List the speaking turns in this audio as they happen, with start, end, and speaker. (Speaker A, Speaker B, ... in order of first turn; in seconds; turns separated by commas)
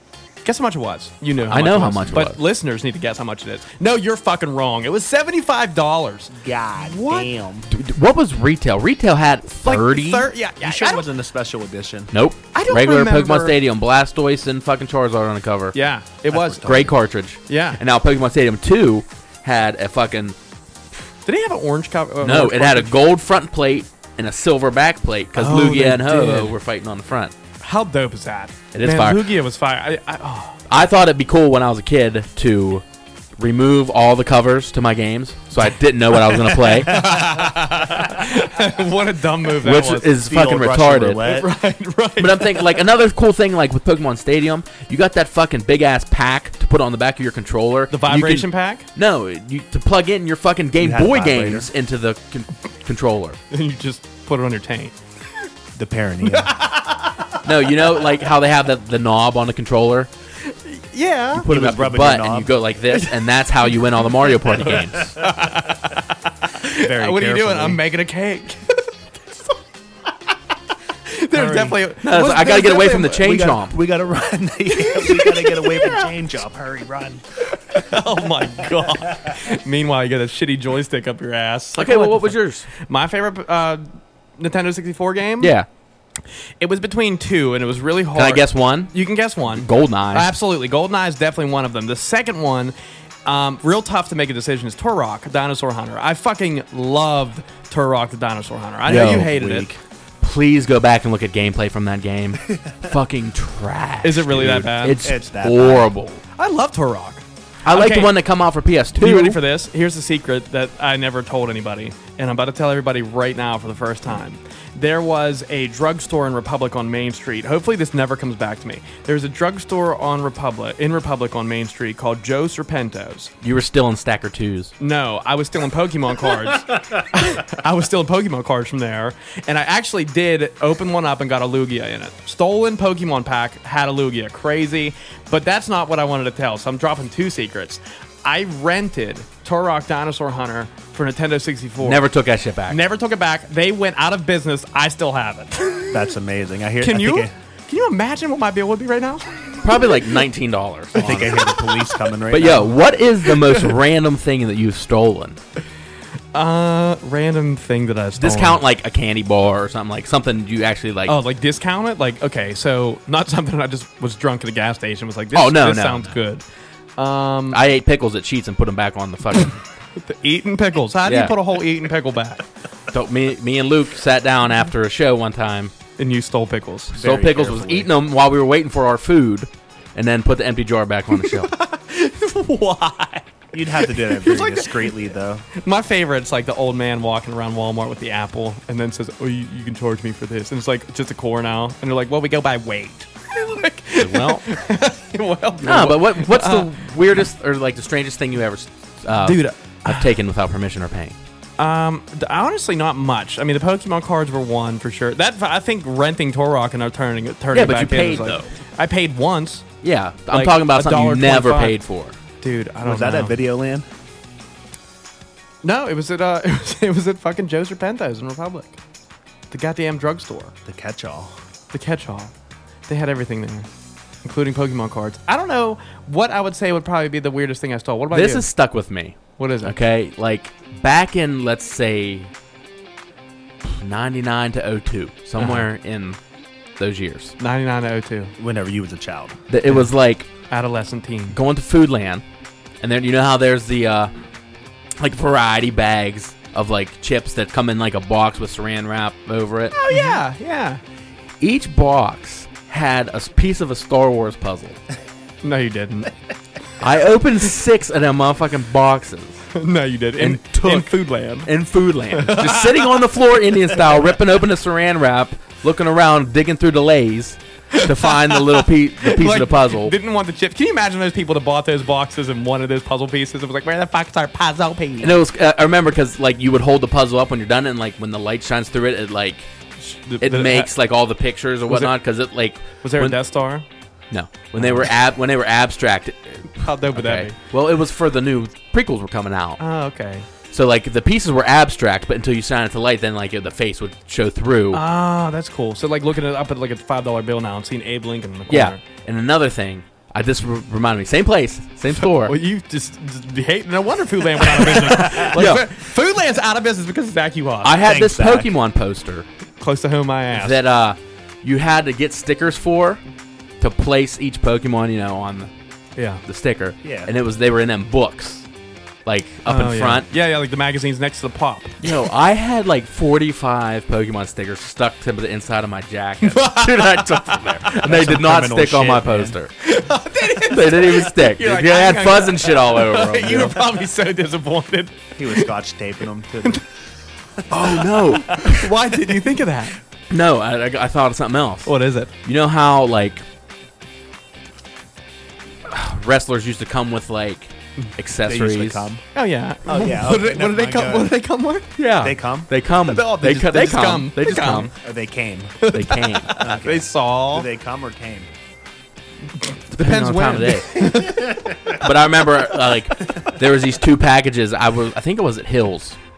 Speaker A: 0.4-7.3, Speaker B: 1.5-2.4, Speaker C: 6.3-7.7, Speaker B: 7.7-10.3, Speaker A: 9.7-11.1, Speaker C: 10.6-12.1, Speaker B: 12.1-15.8, Speaker A: 12.5-13.6, Speaker A: 15.7-16.8, Speaker C: 16.3-16.9, Speaker B: 16.6-20.4, Speaker A: 17.5-17.8, Speaker A: 21.3-22.9, Speaker B: 22.2-27.3, Speaker A: 25.4-26.6, Speaker A: 27.6-30.6, Speaker B: 28.7-29.3, Speaker B: 30.7-32.8, Speaker B: 33.4-37.3, Speaker A: 36.6-40.1, Speaker B: 39.6-41.3, Speaker C: 40.2-41.5, Speaker A: 41.3-42.8, Speaker B: 42.2-53.4, Speaker A: 47.9-48.9, Speaker C: 50.8-51.7, Speaker A: 53.5-55.0, Speaker C: 55.8-56.7, Speaker A: 56.5-56.9, Speaker B: 57.4-60.1, Speaker A: 60.5-61.5, Speaker B: 61.4-65.2, Speaker C: 61.5-62.5, Speaker A: 62.9-63.3, Speaker A: 64.6-69.6, Speaker C: 66.7-67.8, Speaker A: 71.1-73.3, Speaker C: 71.3-71.8, Speaker B: 72.0-73.8, Speaker C: 73.2-77.2, Speaker A: 74.7-76.1, Speaker A: 77.7-85.5, Speaker B: 81.8-82.7, Speaker B: 85.4-85.7, Speaker A: 86.6-92.8, Speaker B: 88.2-89.0, Speaker B: 89.5-90.3, Speaker A: 93.3-99.7, Speaker B: 98.9-99.7, Speaker C: 99.0-99.8, Speaker B: 100.2-106.2, Speaker A: 104.0-105.0, Speaker C: 105.0-105.9, Speaker A: 106.4-108.2, Speaker B: 107.7-109.4, Speaker A: 109.0-123.3, Speaker B: 123.4-124.7, Speaker A: 124.8-142.0, Speaker B: 141.8-142.8, Speaker A: 142.7-146.1, Speaker C: 145.9-147.3, Speaker A: 146.8-149.9, Speaker B: 149.6-151.4, Speaker C: 151.0-152.7, Speaker A: 151.0-151.4, Speaker B: 152.3-155.4, Speaker A: 153.3-153.7, Speaker A: 156.3-158.6, Speaker B: 158.2-161.2, Speaker A: 161.1-166.4, Speaker B: 165.3-166.2, Speaker A: 167.0-167.6, Speaker B: 167.5-169.6, Speaker A: 170.0-172.4, Speaker B: 171.1-171.4, Speaker B: 172.9-175.7, Speaker A: 176.0-177.0, Speaker C: 176.9-177.9, Speaker B: 176.9-181.5, Speaker A: 181.1-196.7, Speaker C: 183.5-185.5, Speaker B: 194.0-194.5, Speaker B: 195.6-201.2, Speaker A: 199.2-200.1, Speaker A: 201.6-209.7, Speaker B: 207.5-208.5, Speaker B: 209.8-212.2, Speaker A: 210.3-211.8, Speaker A: 212.4-213.4, Speaker C: 212.8-213.9, Speaker A: 215.6-218.8, Speaker A: 219.5-220.5, Speaker C: 220.7-221.4, Speaker A: 221.7-222.3, Speaker A: 222.9-223.7, Speaker A: 224.2-228.5, Speaker B: 228.1-232.3, Speaker A: 229.4-229.8, Speaker B: 233.6-236.2, Speaker A: 235.4-235.7, Speaker B: 236.8-237.3, Speaker A: 237.4-238.3, Speaker C: 238.4-239.3, Speaker B: 239.5-240.3, Speaker A: 240.5-241.4, Speaker B: 241.3-242.2, Speaker B: 242.8-244.1, Speaker B: 245.0-250.2, Speaker A: 249.7-250.8, Speaker B: 251.4-254.8, Speaker A: 255.4-256.1, Speaker B: 256.8-259.5, Speaker A: 259.5-261.5, Speaker B: 260.2-269.9, Speaker A: 262.1-263.0, Speaker A: 267.7-275.1, Speaker B: 275.0-279.5, Speaker A: 279.9-280.7, Speaker B: 280.2-283.2, Speaker A: 281.7-281.9, Speaker A: 282.8-283.6, Speaker B: 284.1-289.6, Speaker A: 284.6-284.8, Speaker A: 286.6-287.4, Speaker A: 289.6-290.3, Speaker B: 290.5-294.8, Speaker A: 294.7-298.8, Speaker B: 298.5-302.4, Speaker A: 302.0-307.9, Speaker B: 304.6-305.7, Speaker B: 307.6-309.2, Speaker C: 307.8-308.5, Speaker A: 309.6-310.6, Speaker B: 310.3-313.0, Speaker B: 313.6-315.5, Speaker A: 316.0-316.2, Speaker B: 316.3-318.5, Speaker C: 316.8-317.1, Speaker B: 319.1-320.1, Speaker A: 319.5-321.9, Speaker B: 321.8-329.5, Speaker A: 326.2-327.8, Speaker C: 327.8-329.4, Speaker A: 329.6-335.5, Speaker B: 330.2-333.8, Speaker C: 335.2-336.6, Speaker B: 337.5-338.8, Speaker A: 338.0-339.8, Speaker B: 340.1-343.2, Speaker A: 341.7-342.1, Speaker B: 345.7-348.9, Speaker C: 348.2-349.0, Speaker A: 349.1-351.7, Speaker C: 349.7-351.1, Speaker B: 351.8-354.7, Speaker C: 352.0-352.5, Speaker A: 352.8-354.7, Speaker C: 354.8-355.6, Speaker A: 355.6-357.5, Speaker B: 355.7-356.4, Speaker C: 356.4-358.3, Speaker A: 359.4-361.4, Speaker B: 359.7-366.0